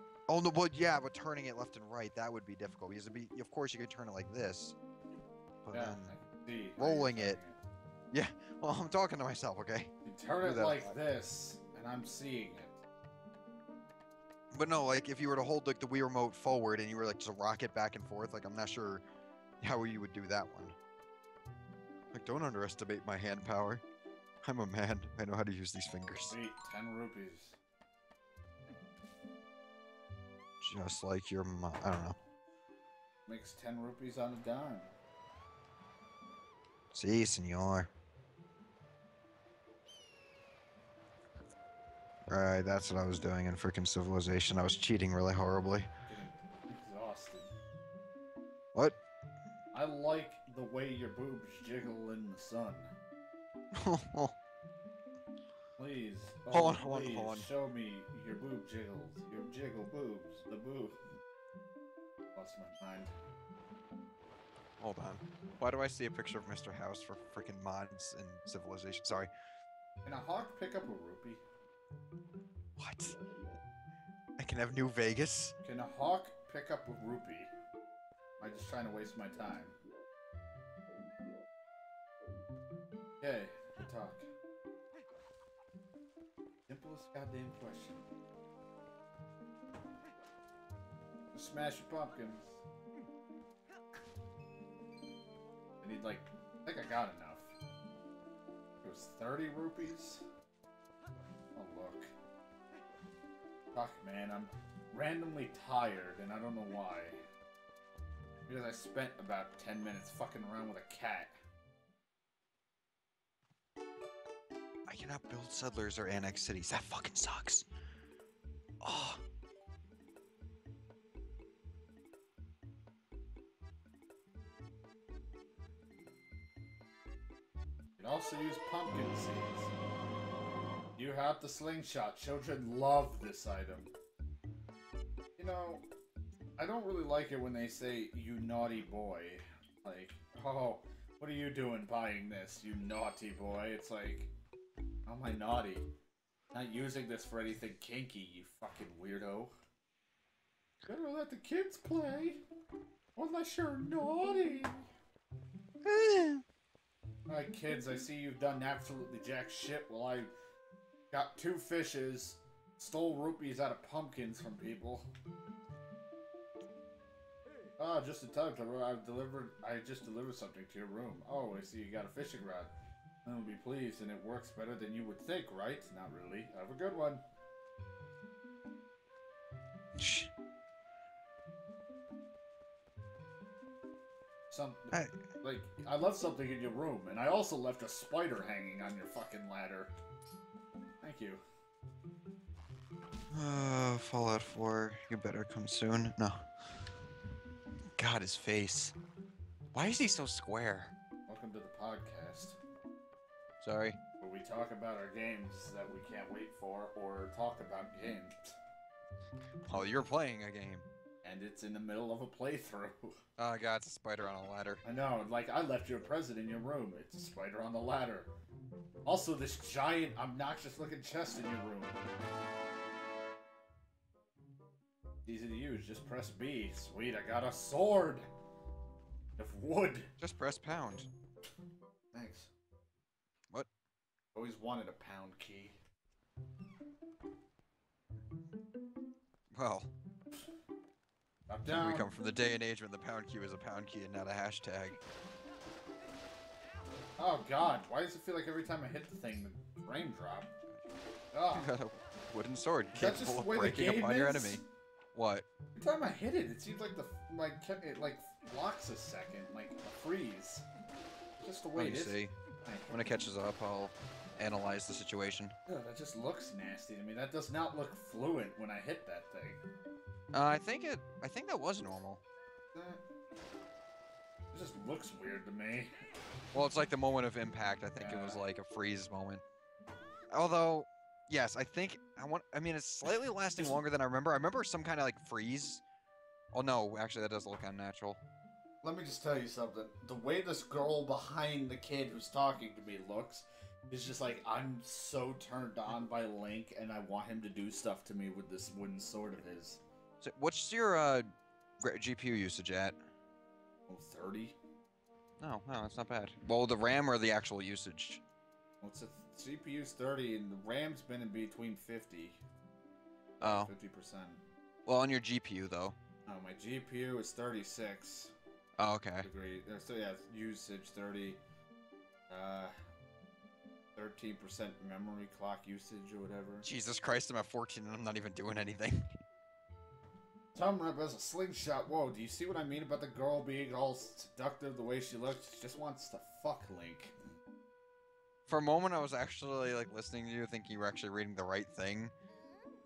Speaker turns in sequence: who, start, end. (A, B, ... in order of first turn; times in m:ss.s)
0:00.3-0:04.8 A
0:05.6-0:06.1 A
0:05.7-0:07.6 B
0:06.8-0:07.4 A
0:08.1-0:09.9 A
0:10.0-0:12.8 B
0:10.4-0:11.0 A
0:14.5-0:19.0 A
0:19.6-0:20.8 A
0:22.1-0:23.8 A
0:24.4-0:26.3 A
0:26.3-0:27.6 B
0:30.6-0:32.2 A
0:33.3-0:34.9 B
0:36.9-0:37.9 A
0:42.3-0:45.9 A
0:46.0-0:47.5 B
0:49.7-0:52.9 B
0:53.7-0:54.3 A
0:55.8-1:01.0 B
0:56.5-0:57.5 A
1:02.3-1:03.1 B
1:04.8-1:09.3 A
1:10.0-1:11.4 B
1:12.8-1:13.2 A
1:14.4-1:15.5 A
1:15.6-1:17.5 B
1:18.4-1:19.8 B
1:23.2-1:24.3 B
1:26.7-1:28.0 B
1:31.3-1:32.5 B
1:35.8-1:37.5 B
1:38.8-1:40.2 B
1:41.5-1:42.1 B
1:43.7-1:47.2 B
1:48.5-1:51.4 B
1:54.9-1:57.7 A
1:58.8-1:59.2 A
2:08.0-2:09.8 B
2:11.0-2:13.9 B
2:15.4-2:15.8 B
2:16.6-2:24.3 B
2:25.0-2:25.9 B
2:26.5-2:29.5 B
2:30.9-2:32.4 B
2:33.2-2:34.9 B
2:35.8-2:36.4 A
2:37.3-2:40.3 B
2:41.1-2:45.1 B
2:47.8-2:52.7 B
2:53.2-2:57.2 B
3:00.0-3:00.3 A
3:04.5-3:09.9 B
3:04.9-3:05.2 A
3:11.0-3:11.4 B
3:13.3-3:16.5 A
3:18.0-3:19.0 A
3:19.7-3:20.9 A
3:21.3-3:22.6 B
3:23.6-3:24.0 A
3:24.2-3:28.6 B
3:29.6-3:30.9 A
3:31.2-3:33.2 B
3:33.4-3:34.8 A
3:34.8-3:38.3 B
3:39.0-3:42.0 B
3:45.2-3:48.3 B
3:49.4-3:50.1 B
3:50.2-3:51.1 A
3:52.1-3:52.5 B
3:54.3-3:55.8 B
3:59.5-3:59.9 A
4:01.5-4:02.1 B
4:01.6-4:05.0 A
4:07.2-4:10.5 B
4:11.3-4:11.7 B
4:11.5-4:14.6 A
4:12.9-4:14.6 B
4:15.1-4:15.4 A
4:15.7-4:20.6 B
4:21.4-4:23.0 B
4:21.8-4:22.3 A
4:22.9-4:25.5 A
4:25.7-4:29.6 B
4:30.3-4:32.2 A
4:32.7-4:33.0 B
4:34.5-4:35.9 B
4:36.5-4:39.4 A
4:38.0-4:38.4 B
4:40.3-4:45.8 A
4:46.5-4:48.2 A
4:48.8-4:59.8 B
5:00.2-5:03.0 A
5:03.9-5:04.6 B
5:05.4-5:08.2 A
5:08.8-5:12.4 B
5:13.4-5:14.4 B
5:13.4-5:13.7 A
5:14.8-5:16.0 A
5:16.3-5:18.3 B
5:18.8-5:19.3 A
5:19.2-5:21.4 B
5:22.3-5:22.7 B
5:24.0-5:26.7 B
5:26.6-5:29.2 A
5:30.5-5:37.1 B
5:38.5-5:42.1 A